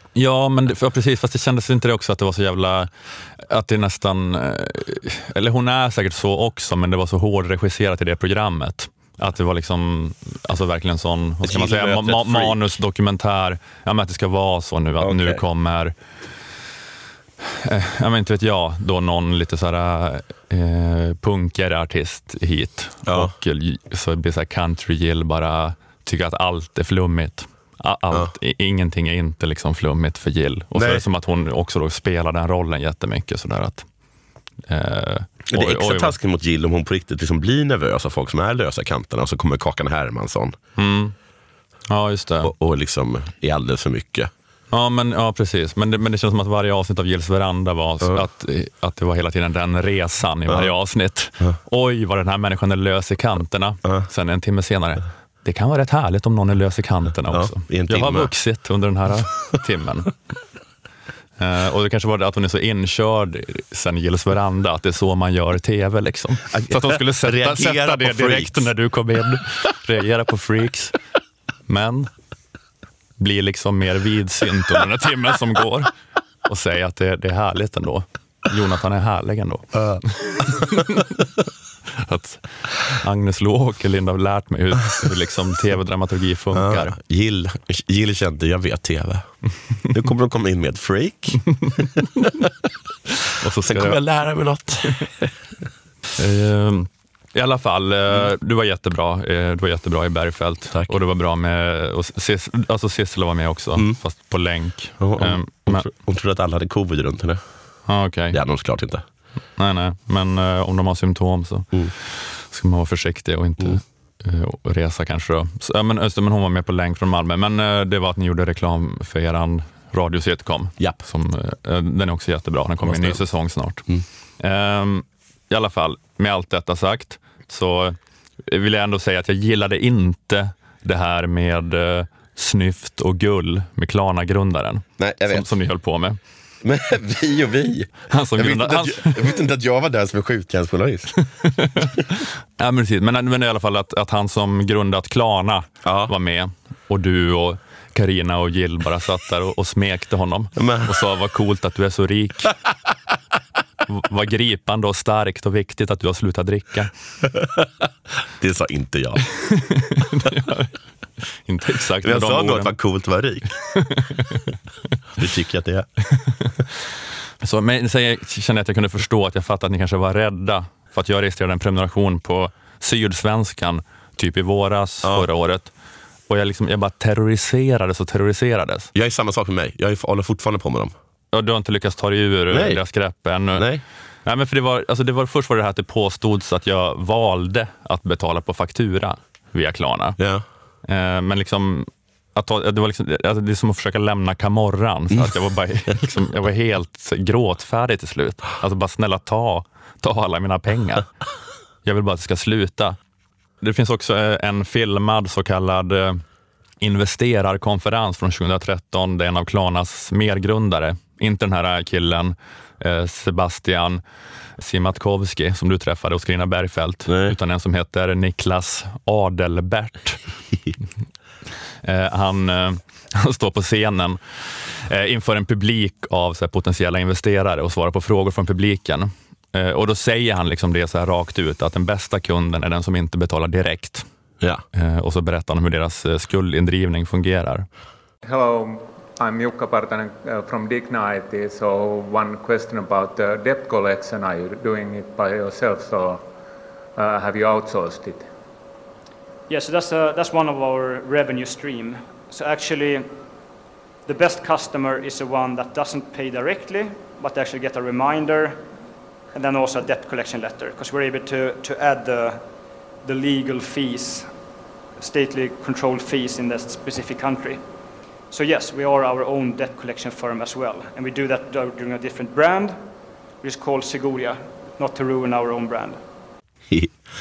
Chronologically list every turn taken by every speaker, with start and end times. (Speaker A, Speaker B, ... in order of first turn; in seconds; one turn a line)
Speaker A: 0.2-15.9
Speaker B: 11.4-12.7
Speaker B: 15.0-15.4
Speaker A: 17.4-33.9
Speaker B: 23.1-23.3
Speaker B: 30.8-31.0
Speaker A: 34.7-36.1
Speaker B: 35.5-40.6
Speaker A: 40.8-41.1
Speaker A: 41.9-42.5
Speaker B: 42.4-44.3
Speaker A: 44.7-60.1
Speaker B: 57.3-58.3
Speaker A: 61.4-71.0
Speaker B: 66.5-68.7
Speaker A: 71.7-72.1
Speaker A: 73.2-75.9
Speaker A: 76.5-81.1
Speaker B: 79.8-80.0
Speaker A: 82.0-87.0
Speaker B: 86.5-89.3
Speaker B: 89.9-92.5
Speaker A: 93.4-94.0
Speaker B: 93.5-95.3
Speaker A: 96.2-105.9
Speaker B: 105.0-107.4
Speaker A: 107.9-108.4
Speaker B: 108.3-109.0
Speaker A: 109.6-123.9
Speaker B: 122.8-123.2
Speaker A: 124.4-128.0
Speaker A: 128.5-136.2
Speaker B: 135.0-135.5
Speaker B: 136.6-141.1
Speaker A: 138.1-139.3
Speaker A: 141.4-152.5
Speaker B: 145.8-146.1
Speaker B: 150.6-151.0
Speaker A: 153.9-156.9
Speaker B: 157.2-157.7
Speaker B: 158.4-159.3
Speaker A: 159.5-160.7
Speaker A: 161.4-162.7
Speaker B: 162.0-163.6
Speaker A: 163.8-164.4
Speaker B: 165.2-165.9
Speaker A: 166.2-166.5
Speaker A: 167.4-175.7
Speaker A: 176.3-178.9
Speaker B: 178.9-180.9
Speaker A: 181.3-183.7
Speaker B: 182.5-182.8
Speaker B: 183.6-183.8
Speaker A: 184.2-190.2
Speaker B: 190.2-190.4
Speaker A: 190.9-201.1
Speaker A: 201.8-203.0
Speaker A: 203.6-206.2
Speaker A: 206.8-214.0
Speaker A: 214.6-220.2
Speaker B: 217.1-217.3
Speaker A: 221.8-234.1
Speaker A: 234.7-237.7
Speaker C: 238.2-246.3
Speaker C: 247.0-248.3
Speaker D: 249.5-253.2
Speaker D: 254.1-258.6
Speaker D: 259.4-262.4
Speaker D: 263.0-264.4
Speaker D: 265.0-267.6
Speaker D: 268.3-272.8
Speaker D: 273.4-276.0
Speaker B: 276.7-276.9